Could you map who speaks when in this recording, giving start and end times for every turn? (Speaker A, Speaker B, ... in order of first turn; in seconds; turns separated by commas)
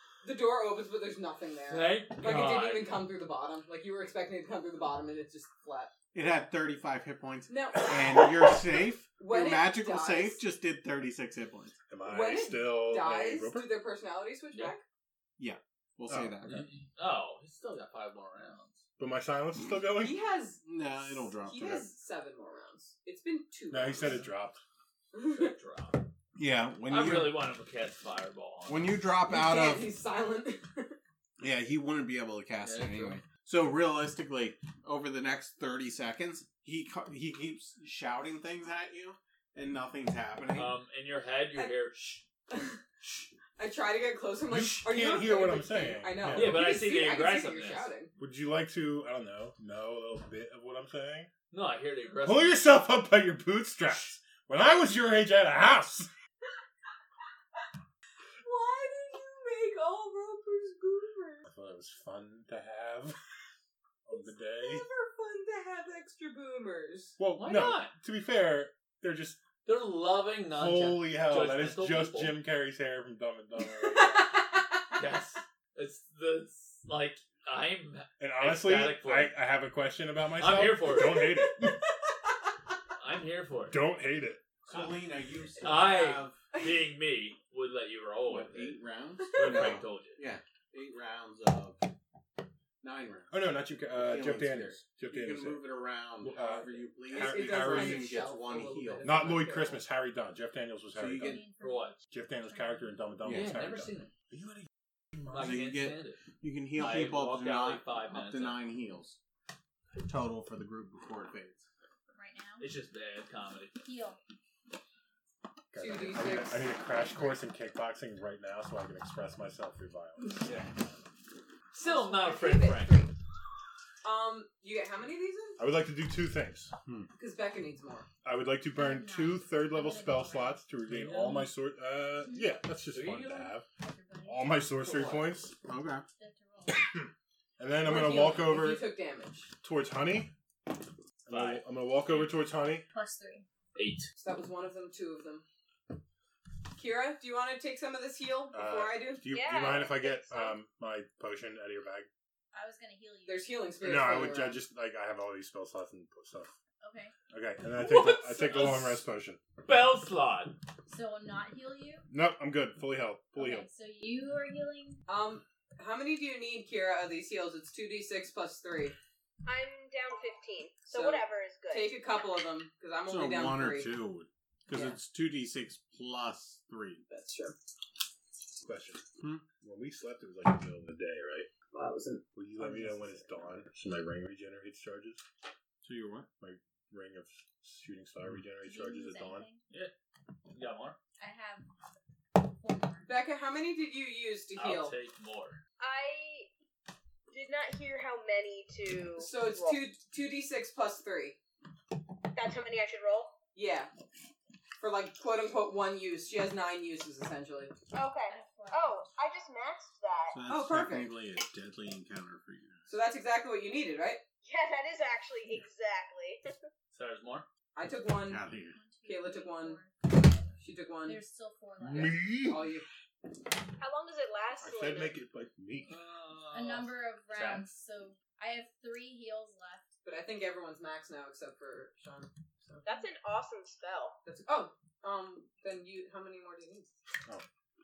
Speaker A: 0.2-5.9, Speaker B: 1.7-3.0, Speaker C: 6.1-11.8, Speaker A: 7.5-8.6, Speaker A: 9.2-10.4, Speaker D: 11.9-13.7, Speaker A: 12.0-14.8, Speaker C: 15.4-16.7, Speaker D: 16.1-16.4, Speaker B: 16.4-18.9, Speaker D: 19.0-20.2, Speaker A: 20.0-24.2, Speaker C: 20.6-21.9, Speaker D: 23.7-24.6, Speaker A: 25.1-25.5, Speaker B: 25.3-26.0, Speaker C: 26.4-27.5, Speaker B: 26.9-29.0, Speaker C: 28.7-29.9, Speaker A: 29.2-31.0, Speaker C: 31.4-40.7, Speaker B: 32.6-33.2, Speaker B: 40.5-42.2, Speaker A: 41.5-42.8, Speaker A: 43.6-48.1, Speaker D: 44.5-46.6, Speaker B: 46.3-47.9, Speaker D: 48.2-51.3, Speaker B: 51.5-52.7, Speaker D: 52.2-56.1, Speaker A: 58.4-61.5, Speaker D: 61.5-63.2, Speaker D: 64.1-64.8, Speaker A: 64.1-67.2, Speaker D: 67.2-69.4, Speaker B: 67.4-67.9, Speaker B: 69.7-72.4, Speaker D: 70.5-74.4, Speaker A: 73.8-75.0, Speaker B: 75.0-79.3, Speaker D: 78.2-81.8, Speaker B: 80.4-81.3, Speaker A: 81.0-81.9, Speaker B: 83.0-83.8, Speaker D: 83.7-84.8, Speaker C: 84.7-86.4, Speaker B: 85.6-88.8, Speaker C: 88.2-91.8, Speaker A: 89.2-89.8, Speaker B: 89.3-90.2, Speaker C: 92.8-99.3, Speaker D: 93.3-95.6, Speaker D: 96.2-98.2, Speaker A: 96.4-99.8, Speaker D: 99.0-101.4, Speaker C: 101.0-101.4, Speaker E: 101.2-103.0, Speaker B: 101.6-102.0, Speaker D: 102.1-105.6, Speaker C: 103.2-103.5, Speaker B: 103.3-104.1, Speaker B: 105.3-106.2, Speaker C: 105.4-109.2, Speaker B: 106.8-108.6, Speaker C: 110.0-111.7, Speaker E: 112.1-112.7, Speaker B: 112.6-113.8, Speaker E: 113.8-114.2, Speaker D: 115.7-120.5, Speaker A: 115.8-117.3, Speaker B: 121.8-123.0, Speaker A: 121.8-123.1, Speaker A: 124.0-125.6, Speaker D: 125.6-126.7, Speaker A: 127.2-128.1, Speaker D: 128.2-133.7, Speaker E: 128.7-130.6, Speaker B: 130.9-131.5, Speaker E: 132.2-132.6, Speaker B: 132.9-133.5, Speaker E: 133.7-134.7, Speaker D: 134.3-135.6, Speaker B: 134.9-135.2, Speaker C: 135.7-136.0, Speaker E: 136.2-136.9, Speaker D: 136.7-138.8, Speaker A: 137.8-139.5, Speaker D: 139.6-140.3, Speaker D: 141.3-142.9, Speaker B: 141.3-142.3, Speaker E: 142.9-143.5, Speaker B: 143.8-144.1, Speaker A: 144.2-145.4, Speaker A: 146.8-149.3, Speaker D: 148.5-152.1, Speaker F: 149.3-150.6, Speaker E: 152.5-153.5, Speaker A: 153.3-154.6, Speaker D: 153.8-156.5, Speaker E: 156.8-157.1, Speaker D: 157.3-159.4, Speaker B: 157.7-159.0, Speaker B: 159.7-160.6, Speaker E: 160.9-162.1, Speaker D: 162.1-163.7, Speaker E: 163.4-165.0, Speaker A: 165.1-168.9, Speaker F: 169.4-172.0, Speaker A: 170.9-173.9, Speaker C: 173.1-177.0, Speaker A: 174.7-175.0, Speaker A: 177.1-177.6, Speaker D: 178.6-179.1, Speaker C: 179.2-179.4, Speaker D: 179.6-181.5, Speaker A: 181.7-183.5, Speaker D: 182.3-185.2, Speaker C: 185.8-186.3, Speaker D: 186.4-189.4, Speaker E: 188.6-189.6, Speaker B: 190.5-191.0, Speaker E: 191.2-191.7, Speaker E: 192.4-193.1, Speaker A: 193.0-195.0, Speaker B: 194.6-195.6, Speaker F: 195.8-196.5, Speaker F: 197.3-199.8, Speaker A: 199.2-201.4, Speaker F: 202.3-203.3, Speaker A: 203.6-203.9, Speaker A: 204.8-207.8, Speaker F: 207.9-210.4, Speaker E: 208.3-209.0, Speaker C: 210.3-212.9, Speaker A: 210.5-211.1, Speaker A: 212.9-214.2, Speaker F: 214.4-216.4, Speaker B: 216.9-217.5, Speaker A: 217.8-218.4, Speaker C: 218.3-218.8, Speaker E: 218.7-222.4, Speaker A: 219.1-219.8, Speaker A: 220.6-221.2, Speaker D: 221.8-222.7, Speaker A: 221.9-222.9, Speaker F: 223.8-225.2, Speaker D: 224.6-226.0, Speaker B: 225.9-227.7, Speaker E: 226.5-229.9, Speaker A: 230.0-232.9, Speaker F: 232.9-234.2, Speaker A: 234.2-236.9